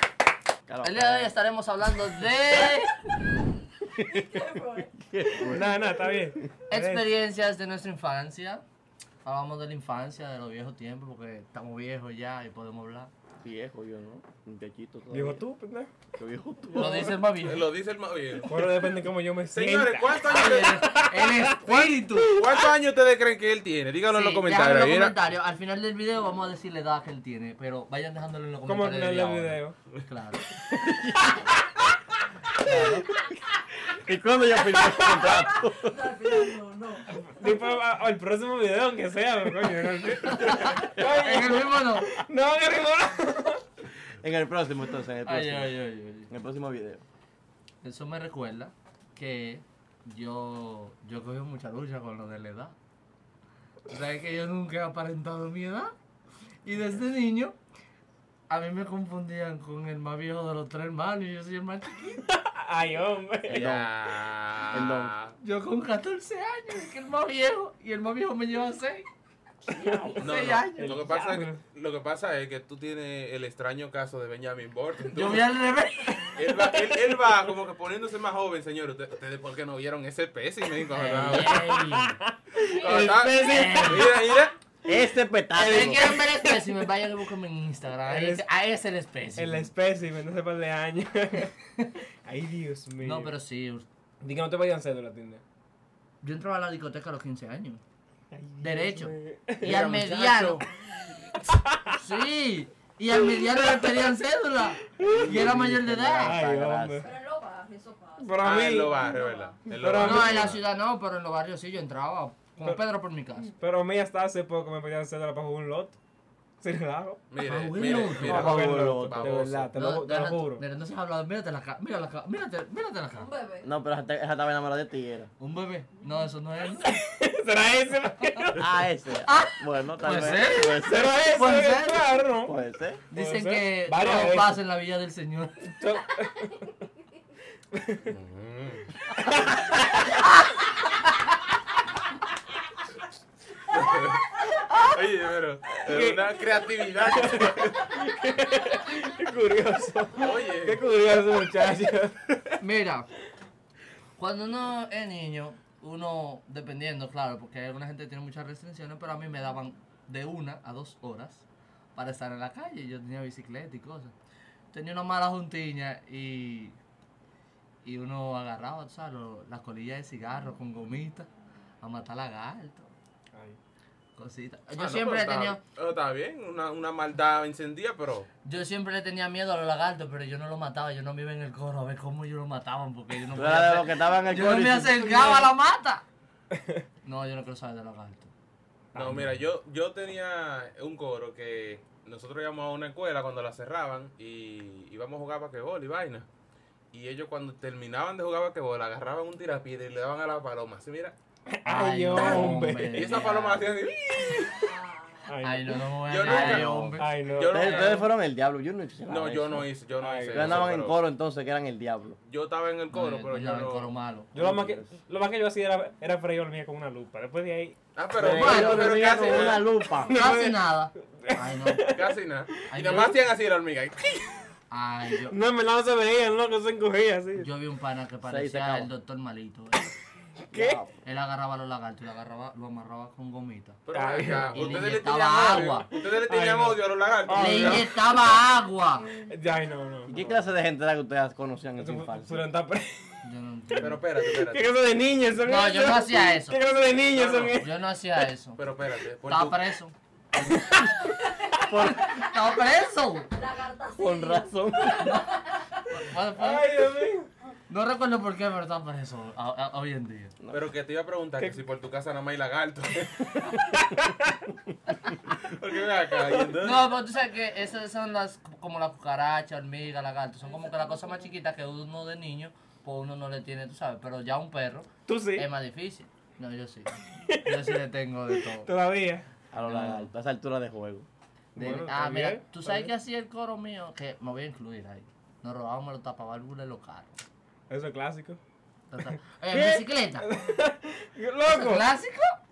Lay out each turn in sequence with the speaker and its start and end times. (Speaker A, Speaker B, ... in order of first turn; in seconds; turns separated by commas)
Speaker A: 0.7-1.3, Speaker B: 0.8-3.0, Speaker A: 4.0-5.8, Speaker C: 5.4-7.0, Speaker B: 6.7-8.6, Speaker B: 9.2-13.1, Speaker A: 13.4-15.4, Speaker C: 15.1-15.9, Speaker A: 16.2-17.1, Speaker B: 16.7-17.7, Speaker C: 16.8-17.1, Speaker D: 17.4-18.5, Speaker C: 18.4-21.5, Speaker D: 19.5-20.9, Speaker B: 20.3-22.3, Speaker D: 21.6-25.1, Speaker C: 22.1-22.6, Speaker B: 24.1-30.4, Speaker C: 28.7-29.8, Speaker A: 30.7-31.5, Speaker B: 32.5-33.1, Speaker A: 33.9-36.3, Speaker C: 34.6-35.6, Speaker C: 36.2-43.6, Speaker B: 40.3-42.1, Speaker A: 44.2-45.8, Speaker B: 45.2-46.3, Speaker A: 46.3-47.0, Speaker B: 47.8-52.7, Speaker B: 53.9-55.9, Speaker B: 56.6-57.5, Speaker B: 58.5-62.2, Speaker C: 62.2-63.7, Speaker A: 63.5-63.9, Speaker D: 63.5-65.4, Speaker A: 64.7-65.1, Speaker B: 65.4-69.1, Speaker C: 69.7-71.6, Speaker B: 69.9-71.4, Speaker D: 70.2-75.5, Speaker B: 75.2-76.5, Speaker D: 76.4-81.6, Speaker C: 76.8-77.3, Speaker B: 81.0-82.2, Speaker C: 81.3-84.2, Speaker D: 82.6-84.5, Speaker B: 83.4-84.4, Speaker A: 84.9-86.1, Speaker B: 85.5-89.7, Speaker C: 85.7-86.6, Speaker C: 88.1-88.4, Speaker C: 89.4-91.6, Speaker C: 92.2-93.3, Speaker B: 93.0-93.9, Speaker C: 94.2-95.4, Speaker B: 96.2-97.8, Speaker C: 98.3-99.8, Speaker B: 98.6-100.7, Speaker D: 99.6-100.7, Speaker C: 101.3-102.0, Speaker B: 101.9-106.4, Speaker C: 105.0-105.5, Speaker A: 105.0-107.1, Speaker C: 106.2-107.1, Speaker E: 107.0-108.3, Speaker C: 108.2-109.0, Speaker D: 108.4-110.6, Speaker E: 109.0-109.6, Speaker C: 109.7-110.6, Speaker B: 110.0-113.5, Speaker C: 113.4-116.0, Speaker C: 116.6-117.2, Speaker D: 117.3-119.7, Speaker B: 117.4-118.5, Speaker C: 117.8-120.6, Speaker A: 118.0-119.4, Speaker B: 119.8-123.3, Speaker E: 123.2-123.7, Speaker A: 123.6-125.3, Speaker B: 125.4-126.9, Speaker C: 126.8-128.9, Speaker A: 128.6-131.1, Speaker B: 129.3-132.1, Speaker C: 130.4-132.6, Speaker A: 132.4-133.0, Speaker B: 133.1-135.8, Speaker C: 133.1-134.6, Speaker C: 135.7-136.7, Speaker C: 137.7-138.1, Speaker D: 138.1-138.9, Speaker C: 139.2-140.3, Speaker D: 143.7-147.8, Speaker C: 145.8-146.2, Speaker C: 147.1-152.6, Speaker D: 150.2-150.8, Speaker B: 152.6-153.1, Speaker B: 154.2-164.1, Speaker B: 164.7-166.8, Speaker B: 167.8-171.3, Speaker B: 171.8-172.9, Speaker B: 174.2-175.6, Speaker D: 174.8-178.3, Speaker B: 178.4-186.0, Speaker A: 183.3-185.1, Speaker C: 185.0-185.5, Speaker B: 187.0-188.3, Speaker C: 188.9-189.3, Speaker D: 188.9-196.3, Speaker D: 196.9-201.2, Speaker C: 201.5-203.2, Speaker B: 201.7-203.7, Speaker D: 202.1-204.7, Speaker C: 205.3-205.8, Speaker B: 205.4-207.1, Speaker D: 206.1-206.7, Speaker A: 206.2-209.7, Speaker C: 206.8-208.0, Speaker D: 207.2-208.1, Speaker D: 209.1-211.0, Speaker C: 210.0-210.7, Speaker A: 210.3-212.2, Speaker D: 212.3-213.9, Speaker B: 212.9-214.3, Speaker C: 214.3-217.8, Speaker A: 214.3-214.9, Speaker D: 218.0-219.6, Speaker A: 218.2-220.2, Speaker B: 218.2-219.1, Speaker C: 219.9-222.7, Speaker B: 220.1-221.9, Speaker D: 221.9-224.1, Speaker B: 222.7-223.1, Speaker B: 224.7-225.4, Speaker C: 225.3-227.5, Speaker B: 227.3-229.9, Speaker A: 228.2-228.9, Speaker C: 230.5-230.8, Speaker A: 230.5-230.9, Speaker B: 231.0-235.9, Speaker D: 233.9-237.9, Speaker C: 233.9-235.0, Speaker C: 235.5-237.9, Speaker B: 237.3-239.1, Speaker C: 239.2-240.4, Speaker A: 240.1-242.4, Speaker C: 241.8-243.1, Speaker B: 243.2-244.0, Speaker D: 243.8-244.6, Speaker C: 244.4-247.7, Speaker B: 245.4-246.6, Speaker D: 247.1-247.6, Speaker B: 247.5-248.6, Speaker D: 248.6-249.7, Speaker B: 249.3-249.9, Speaker A: 250.5-250.7, Speaker A: 251.6-252.1, Speaker B: 251.7-253.3, Speaker E: 253.5-254.4, Speaker A: 254.0-255.2, Speaker B: 255.0-256.9, Speaker C: 256.4-257.3, Speaker B: 257.7-260.4, Speaker D: 260.5-263.3, Speaker C: 263.3-265.4, Speaker D: 265.4-266.8, Speaker C: 266.2-266.4, Speaker B: 266.6-278.7, Speaker C: 275.1-275.5, Speaker C: 277.3-277.7, Speaker C: 278.3-279.2, Speaker A: 279.5-281.1, Speaker B: 279.6-280.1, Speaker C: 281.6-282.9, Speaker B: 281.6-287.2, Speaker C: 287.7-288.4, Speaker B: 288.9-290.3, Speaker C: 289.5-291.8, Speaker B: 291.5-292.4